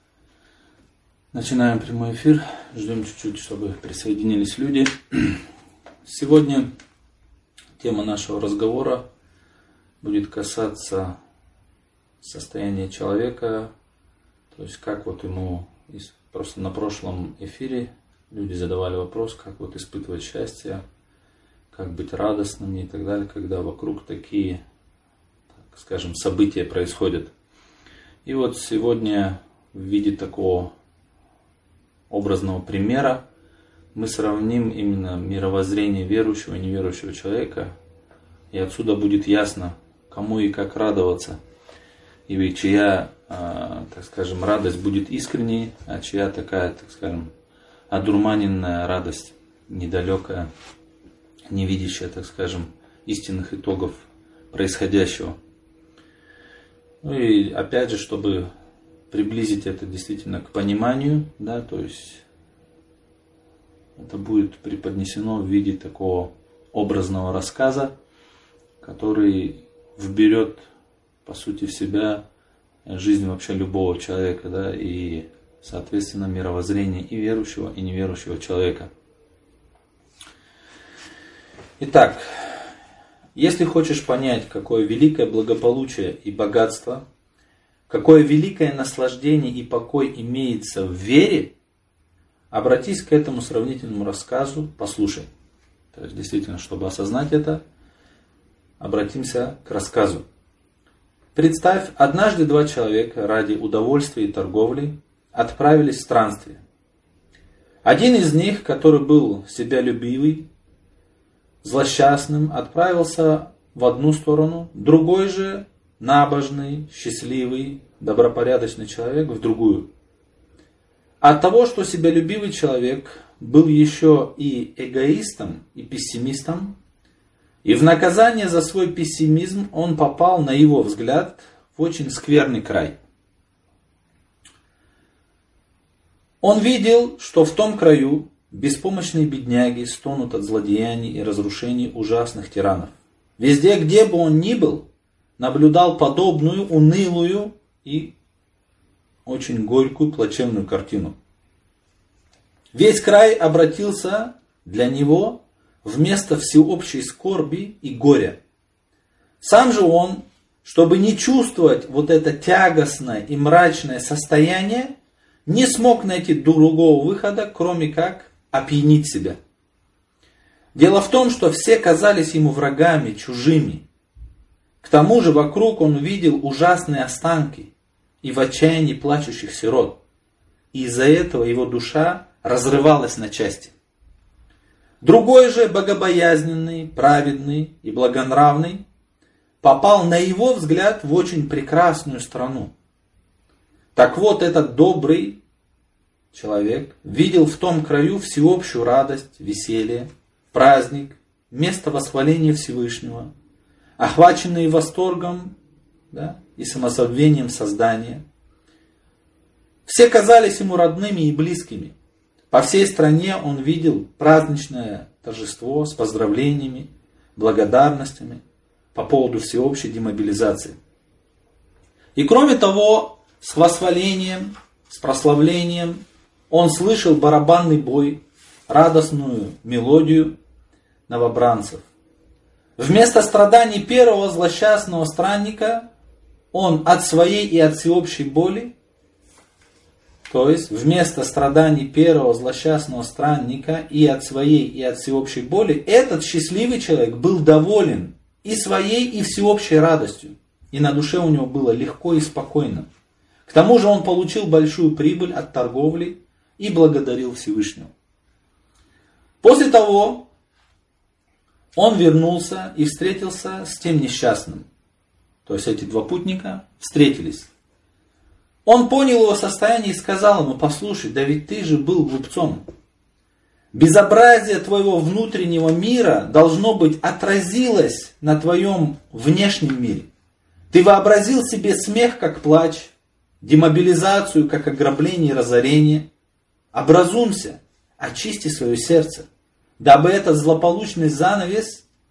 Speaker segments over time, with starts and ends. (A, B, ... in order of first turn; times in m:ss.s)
0:01.3-0:05.4 A
0:06.0-0:06.7 A
0:07.8-0:09.0 A
0:10.0-0:11.2 A
0:12.2-0:13.7 A
0:14.5-0:20.8 A
0:21.7-0:24.6 A
0:25.6-0:27.3 A
0:28.2-0:30.7 A
0:32.1-0:33.2 A
0:33.9-0:37.7 A
0:38.5-0:41.4 A
0:42.3-0:47.3 A
0:47.9-0:50.5 A
0:51.5-0:55.4 A
0:57.0-0:58.5 A
0:59.1-1:02.2 A
1:04.0-1:07.9 A
1:08.8-1:10.7 A
1:11.2-1:12.2 A
1:12.8-1:18.9 A
1:21.8-1:22.6 A
1:23.3-1:27.0 A
1:27.9-1:31.5 A
1:32.5-1:35.3 A
1:35.9-1:37.6 A
1:38.8-1:40.2 A
1:41.3-1:46.6 A
1:47.8-1:50.4 A
1:51.6-1:59.9 A
2:01.2-2:06.7 A
2:07.6-2:13.0 A
2:16.4-2:24.8 A
2:25.4-2:28.1 A
2:29.2-2:31.1 A
2:32.7-2:38.4 A
2:39.4-2:44.9 A
2:45.4-2:49.4 A
2:50.7-2:53.8 A
2:54.8-2:57.7 A
2:58.2-3:00.0 A
3:00.7-3:03.7 A
3:05.0-3:08.8 A
3:09.6-3:12.7 A
3:13.9-3:15.4 A
3:16.3-3:23.3 A
3:24.0-3:25.5 A
3:26.1-3:28.2 A
3:29.8-3:31.9 A
3:32.5-3:38.4 A
3:38.9-3:40.8 A
3:42.1-3:50.3 A
3:51.1-3:51.8 A
3:52.8-3:55.8 A
3:56.5-3:58.7 A
4:00.3-4:12.8 A
4:13.4-4:17.9 A
4:19.4-4:20.3 A
4:21.7-4:24.6 A
4:25.4-4:27.5 A
4:28.6-4:32.6 A
4:33.7-4:40.1 A
4:40.7-4:46.1 A
4:46.7-4:49.3 A
4:49.8-4:51.8 A